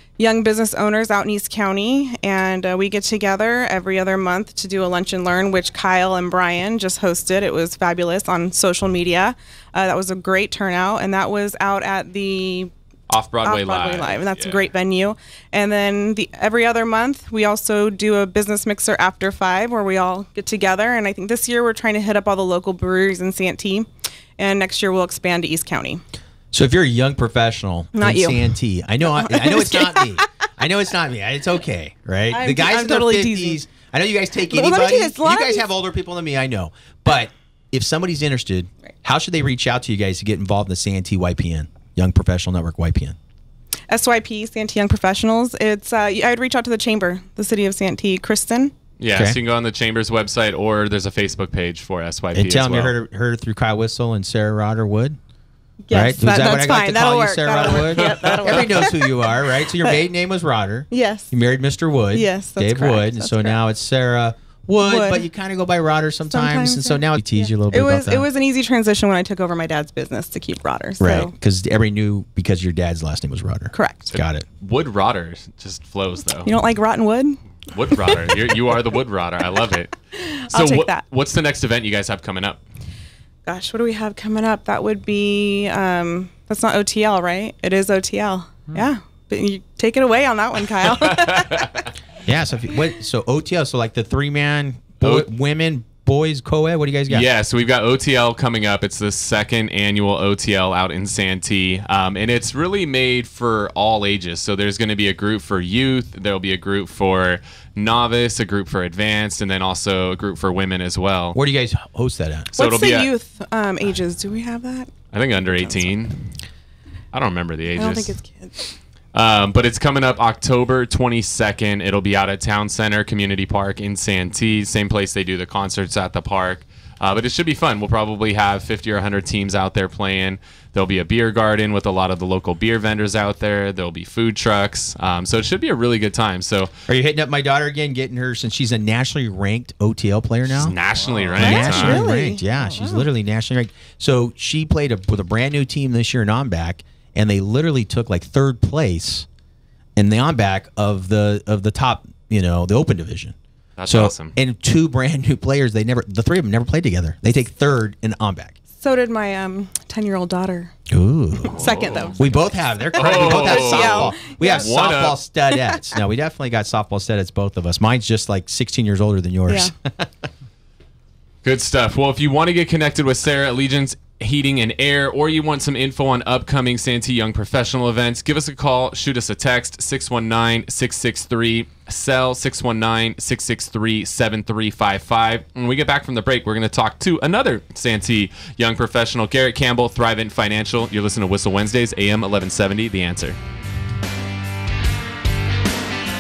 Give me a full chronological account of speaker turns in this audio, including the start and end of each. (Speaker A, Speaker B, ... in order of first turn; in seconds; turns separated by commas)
Speaker A: 0.2-12.7, Speaker B: 13.1-14.7, Speaker A: 13.4-26.0, Speaker C: 26.5-43.2, Speaker A: 27.9-28.5, Speaker A: 29.1-30.2, Speaker A: 32.3-33.6, Speaker A: 34.5-35.7, Speaker A: 43.9-48.7, Speaker B: 49.0-53.0, Speaker C: 49.1-49.4, Speaker C: 52.3-55.2, Speaker A: 55.9-60.0, Speaker C: 55.9-68.3, Speaker A: 60.9-61.3, Speaker A: 62.1-63.6, Speaker A: 64.8-65.2, Speaker A: 66.3-71.3, Speaker C: 71.0-74.5, Speaker A: 73.7-74.1, Speaker B: 74.1-76.5, Speaker A: 76.4-77.4, Speaker B: 77.7-80.0, Speaker A: 80.1-81.0, Speaker B: 80.5-82.6, Speaker A: 83.5-91.7, Speaker B: 90.9-91.9, Speaker C: 92.3-97.3, Speaker B: 95.0-95.3, Speaker B: 97.1-111.4, Speaker C: 111.3-112.5, Speaker A: 112.5-114.9, Speaker B: 112.6-113.1, Speaker B: 115.1-116.3, Speaker A: 115.5-115.9, Speaker B: 117.1-118.2, Speaker A: 117.8-118.6, Speaker B: 119.1-136.7, Speaker C: 136.9-140.8, Speaker B: 140.5-142.0, Speaker C: 141.3-149.3, Speaker A: 141.4-143.1, Speaker C: 150.0-153.3, Speaker B: 153.8-154.3, Speaker C: 153.9-158.6, Speaker A: 158.8-160.7, Speaker C: 160.9-161.6, Speaker A: 161.4-164.7, Speaker B: 161.5-162.2, Speaker C: 162.2-170.1, Speaker B: 163.0-165.2, Speaker A: 165.5-165.9, Speaker B: 171.4-193.4